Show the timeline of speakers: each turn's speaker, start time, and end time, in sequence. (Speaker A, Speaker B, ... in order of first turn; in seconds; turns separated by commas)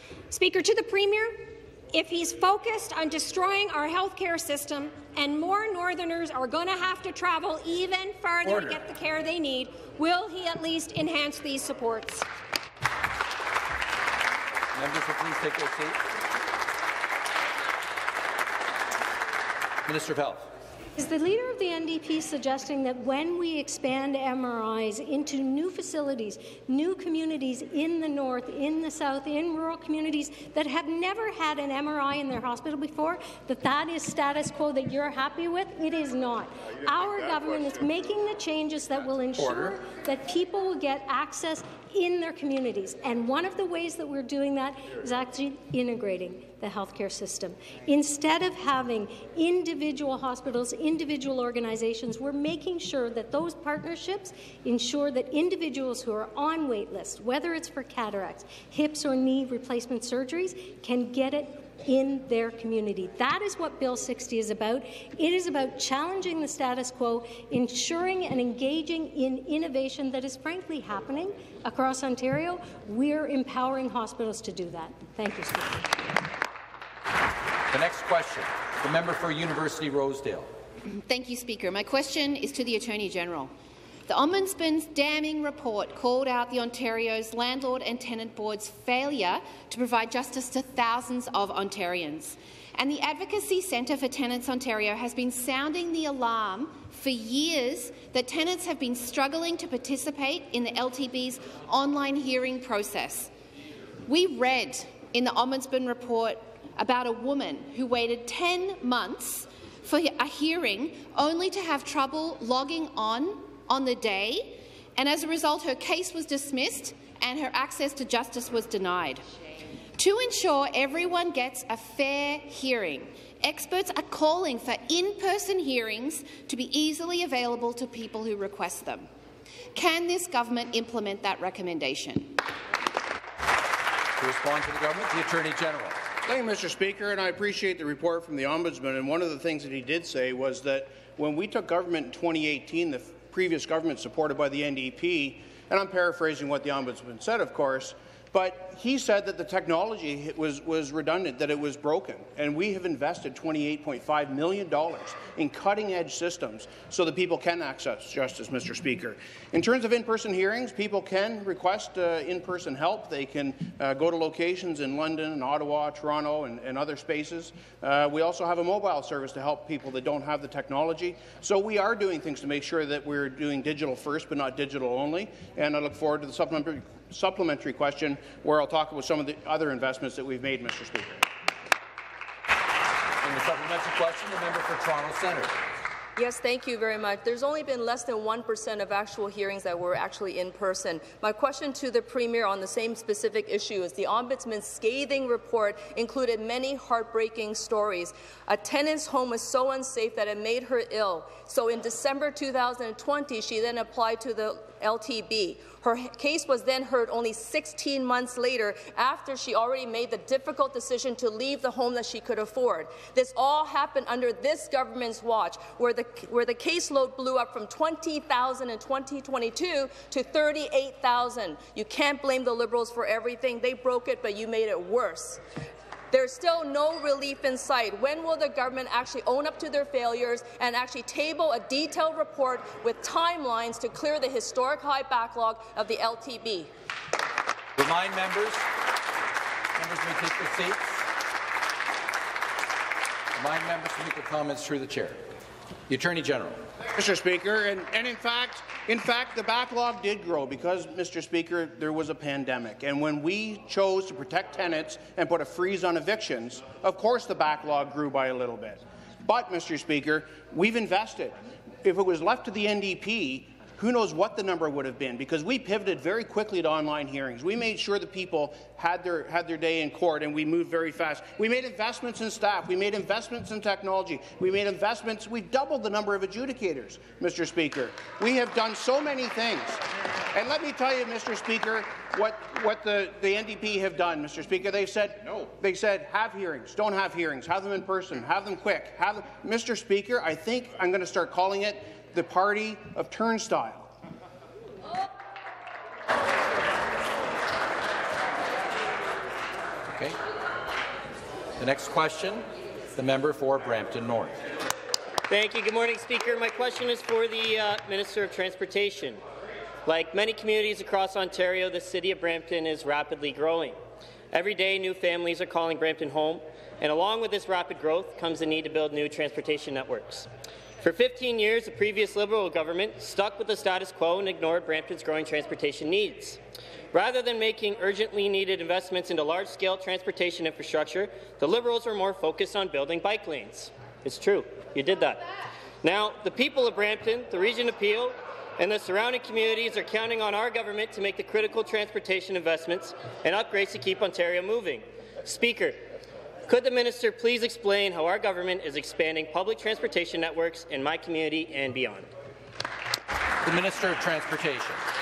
Speaker A: 0.3-12.2, Speaker B: 8.4-8.8, Speaker B: 14.7-16.0, Speaker B: 19.8-20.5, Speaker C: 20.9-76.1, Speaker B: 39.4-39.8, Speaker B: 77.7-80.5, Speaker D: 80.9-83.5, Speaker D: 84.1-103.3, Speaker D: 104.0-119.2, Speaker D: 120.0-129.1, Speaker D: 129.7-132.4, Speaker B: 134.2-136.0, Speaker E: 136.2-181.2, Speaker B: 183.2-185.6, Speaker F: 186.2-225.4, Speaker F: 226.1-236.7, Speaker B: 237.8-238.7, Speaker B: 239.8-241.0, Speaker B: 243.3-245.2, Speaker B: 245.9-246.6, Speaker E: 246.9-293.9, Speaker B: 299.9-300.2, Speaker B: 301.6-304.4, Speaker G: 305.3-309.2, Speaker G: 309.8-313.8, Speaker G: 314.3-320.3, Speaker G: 320.8-326.4, Speaker G: 326.9-335.2, Speaker G: 335.8-345.8, Speaker G: 346.5-352.1, Speaker B: 353.4-354.8